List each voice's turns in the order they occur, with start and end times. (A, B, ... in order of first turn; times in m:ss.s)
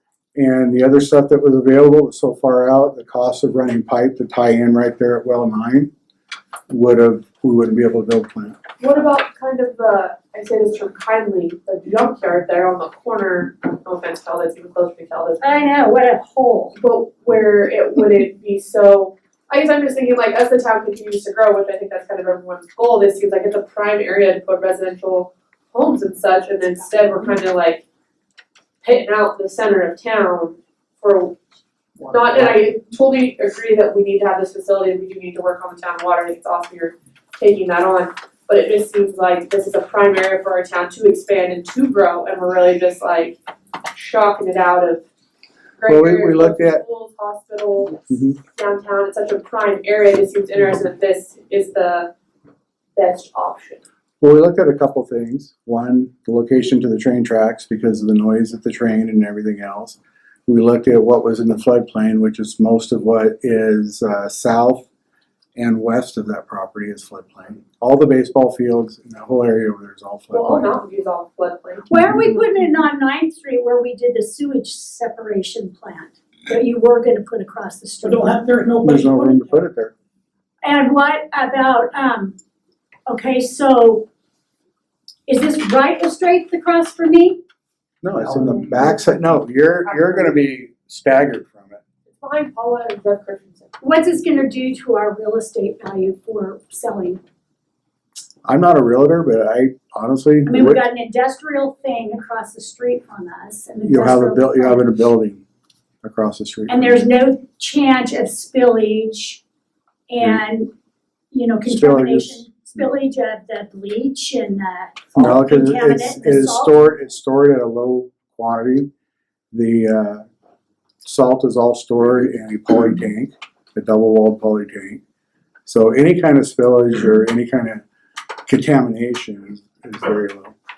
0:00.4-0:05.9 A
0:06.7-0:08.6 A
0:08.8-0:15.4 B
0:15.4-0:16.8 C
0:16.8-0:27.8 B
0:28.8-0:31.4 B
0:32.1-0:43.4 B
0:43.9-0:45.0 B
0:45.8-0:52.1 B
0:45.9-0:46.8 A
0:48.1-0:48.4 A
0:53.0-0:53.8 B
0:54.2-1:04.9 A
1:05.6-1:10.7 A
1:10.3-1:11.9 B
1:11.9-1:18.5 C
1:18.0-1:19.5 D
1:18.8-1:19.9 A
1:20.6-1:22.4 C
1:23.1-1:24.1 C
1:25.3-1:27.4 C
1:28.0-1:31.8 A
1:28.3-1:29.3 D
1:29.9-1:30.3 D
1:32.1-1:33.8 B
1:33.8-1:37.2 C
1:38.4-1:40.8 A
1:40.4-1:44.9 C
1:43.8-1:45.4 A
1:46.0-1:46.8 A
1:46.7-1:49.4 C
1:50.1-1:50.7 C
1:51.3-1:56.9 C
1:51.7-1:52.7 A
1:55.1-1:58.9 A
1:59.5-2:00.2 A
2:01.0-2:05.0 A
2:05.6-2:07.8 A
2:08.5-2:10.6 A